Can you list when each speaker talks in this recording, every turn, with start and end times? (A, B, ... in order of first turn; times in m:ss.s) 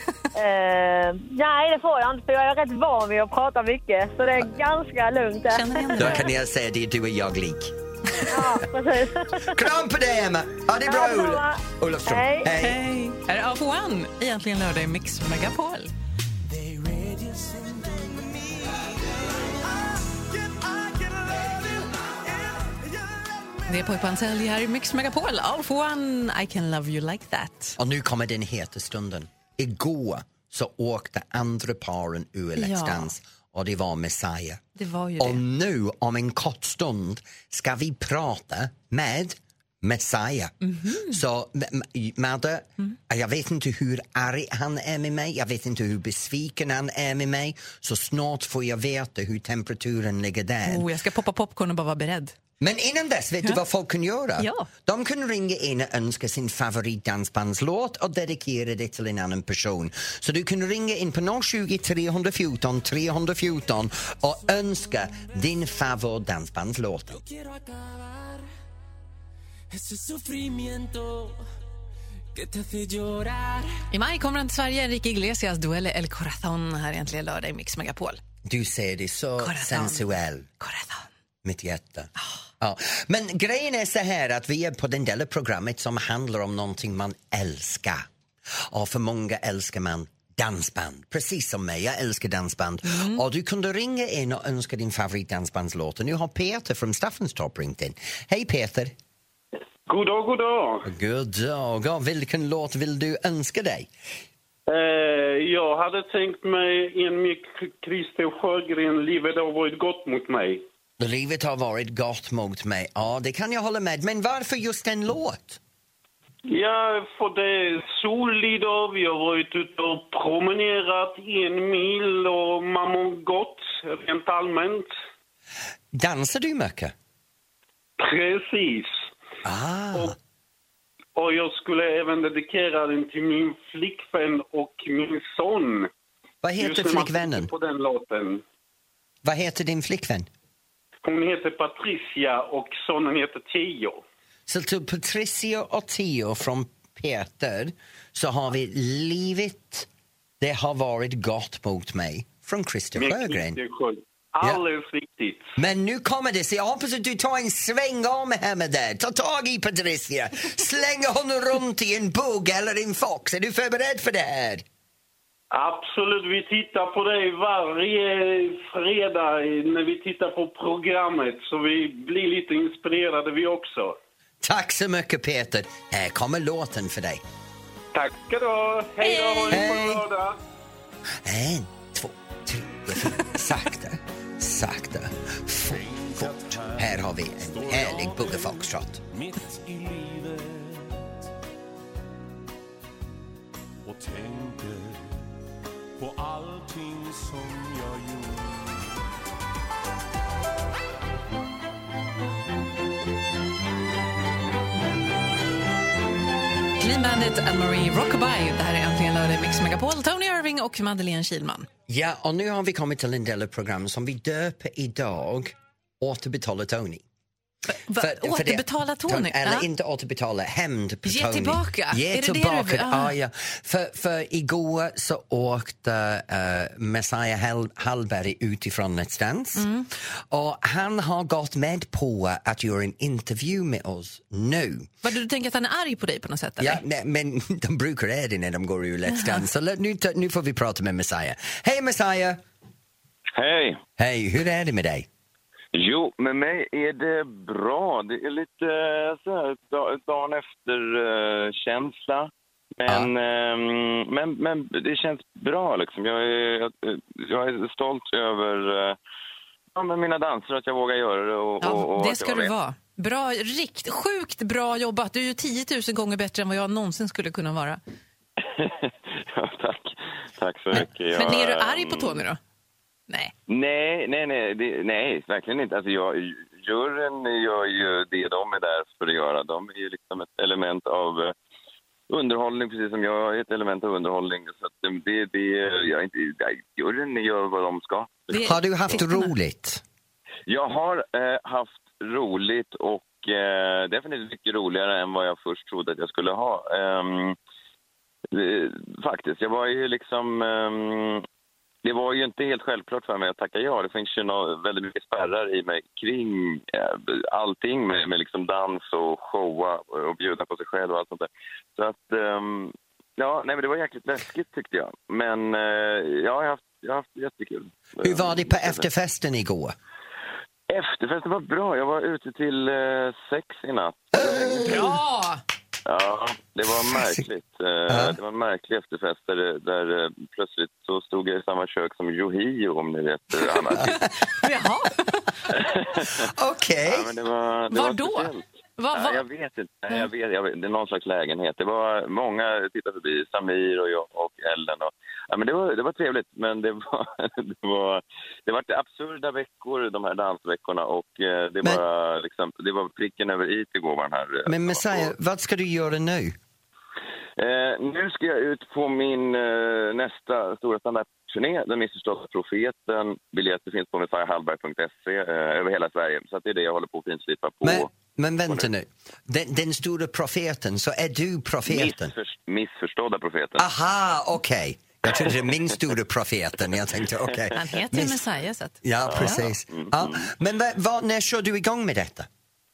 0:00.4-0:06.2 A
0:05.5-0:06.3 B
0:06.0-0:07.8 C
0:08.3-0:09.6 A
0:09.4-0:12.8 C
0:10.8-0:12.5 A
0:12.6-0:15.9 B
0:16.4-0:23.7 D
0:23.7-0:27.8 B
0:27.8-0:34.6 C
0:32.6-0:33.1 B
0:34.8-0:35.4 B
0:35.2-0:50.9 C
0:40.6-0:41.2 B
0:50.7-0:52.3 B
0:52.6-1:07.2 C
0:54.4-0:54.7 B
1:04.6-1:05.0 D
1:07.1-1:08.5 D
1:09.7-1:11.4 D
1:12.3-1:13.8 D
1:13.9-1:18.2 B
1:18.5-1:20.5 C
1:19.4-1:21.1 B
1:21.4-1:28.1 C
1:28.6-1:38.9 C
1:32.9-1:33.2 B
1:39.9-1:40.9 E
1:40.8-1:43.9 C
1:44.7-1:50.6 E
1:51.0-1:55.6 C
1:56.5-2:04.9 E
2:05.9-2:06.9 C
2:08.0-2:09.1 E
2:09.4-2:10.2 C
2:11.2-2:15.9 E
2:16.4-2:17.5 C
2:16.6-2:18.4 E
2:19.2-2:20.3 C
2:21.0-2:24.0 E
2:24.5-2:29.9 C
2:30.4-2:33.6 C
2:33.0-2:35.5 E
2:35.6-2:44.6 C
2:45.5-2:54.0 E
2:54.4-2:57.2 C
2:57.9-3:00.4 E
2:59.0-2:59.7 B
2:59.5-3:00.0 C
3:01.2-3:09.0 C
3:05.6-3:11.2 D
3:13.8-3:15.3 D
3:16.0-3:19.1 D
3:26.8-3:31.7 B
3:31.9-3:37.0 C
3:37.7-3:39.7 B
3:38.0-3:49.7 C
3:41.0-3:43.1 B
3:49.6-3:49.9 B
3:50.3-3:54.9 C
3:55.0-3:56.8 B
3:56.6-4:02.4 C
3:59.1-3:59.4 B
4:03.4-4:03.8 F
4:04.0-4:05.1 C
4:05.7-4:19.0 F
4:19.8-4:22.6 F
4:21.6-4:27.8 B
4:28.4-4:32.2 F
4:30.7-4:32.4 B
4:33.5-4:41.3 F
4:42.1-4:49.0 F
4:48.3-4:49.3 B
4:48.4-4:49.8 C
4:50.5-4:57.4 F
4:58.3-5:01.2 F
5:01.8-5:18.9 F
5:18.0-5:19.8 C
5:20.7-5:24.8 F
5:24.2-5:24.9 C
5:24.6-5:25.4 B
5:25.9-5:34.0 F
5:27.9-5:28.2 C
5:33.7-5:35.5 B
5:33.8-5:34.2 C
5:35.5-5:36.1 F
5:36.2-5:37.1 C
5:36.8-5:55.1 F
5:37.7-5:39.2 B
5:54.5-5:56.4 C
5:57.4-6:07.9 F
6:07.6-6:12.1 C
6:11.6-6:13.7 F
6:13.6-6:18.2 C
6:15.1-6:15.4 F
6:17.5-6:19.5 B
6:18.8-6:22.3 C
6:19.1-6:20.3 F